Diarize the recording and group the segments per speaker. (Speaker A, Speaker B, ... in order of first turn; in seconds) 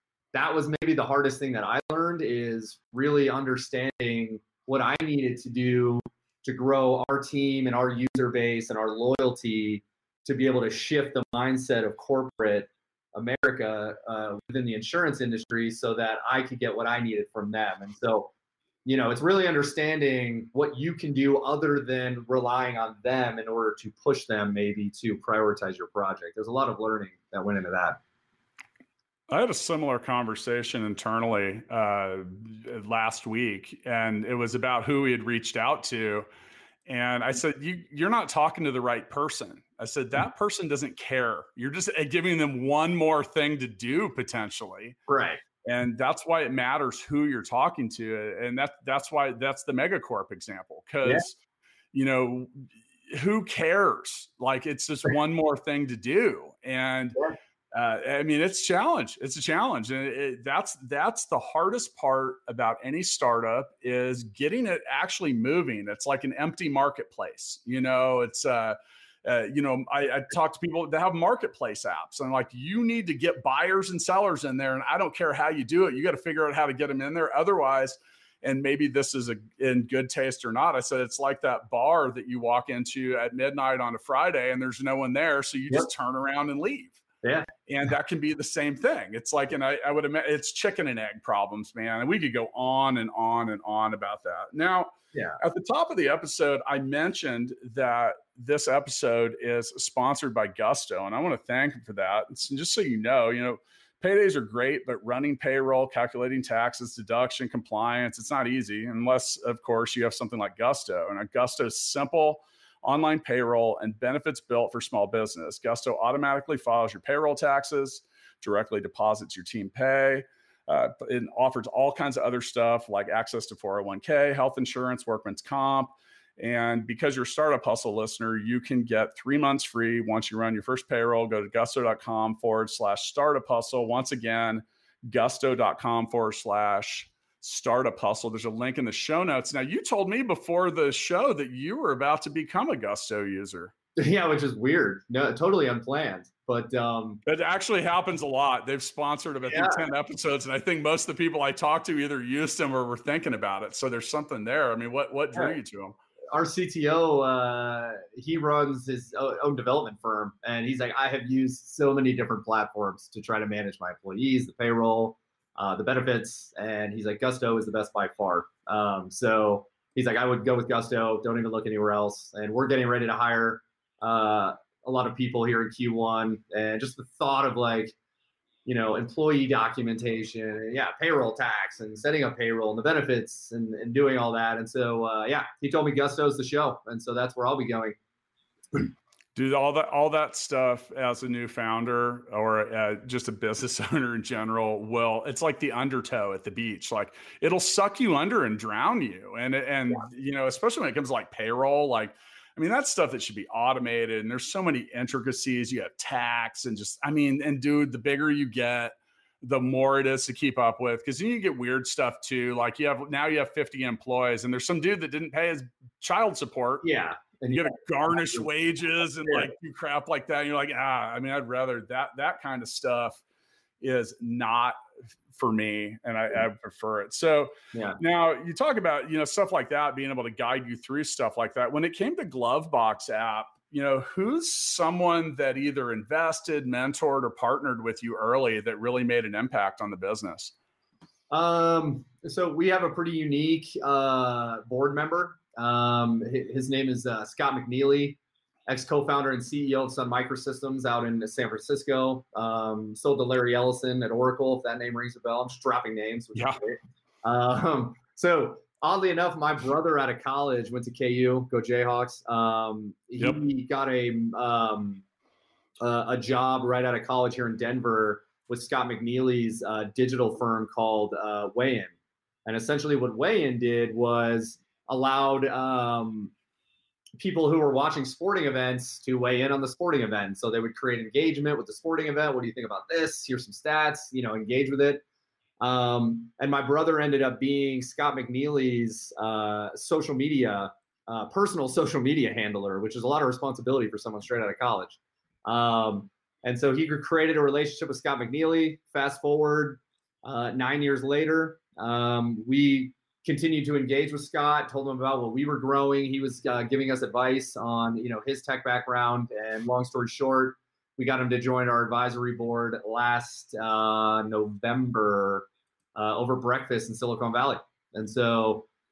Speaker A: 0.3-18.3, 18.8-28.0, 45.1-45.4, 87.2-87.5, 95.1-95.4, 144.0-147.2, 149.5-149.8, 156.3-177.9, 178.7-187.9, 216.8-218.5, 219.3-219.5, 227.7-228.0, 241.3-265.0, 265.8-271.9, 272.4-276.3, 277.2-285.0, 285.6-318.7
Speaker B: 29.3-36.3, 36.9-45.0, 45.6-51.4, 51.9-57.2, 57.7-87.0, 87.7-143.7, 147.2-155.9, 189.3-216.8, 217.5-223.2, 223.8-224.8, 225.3-240.5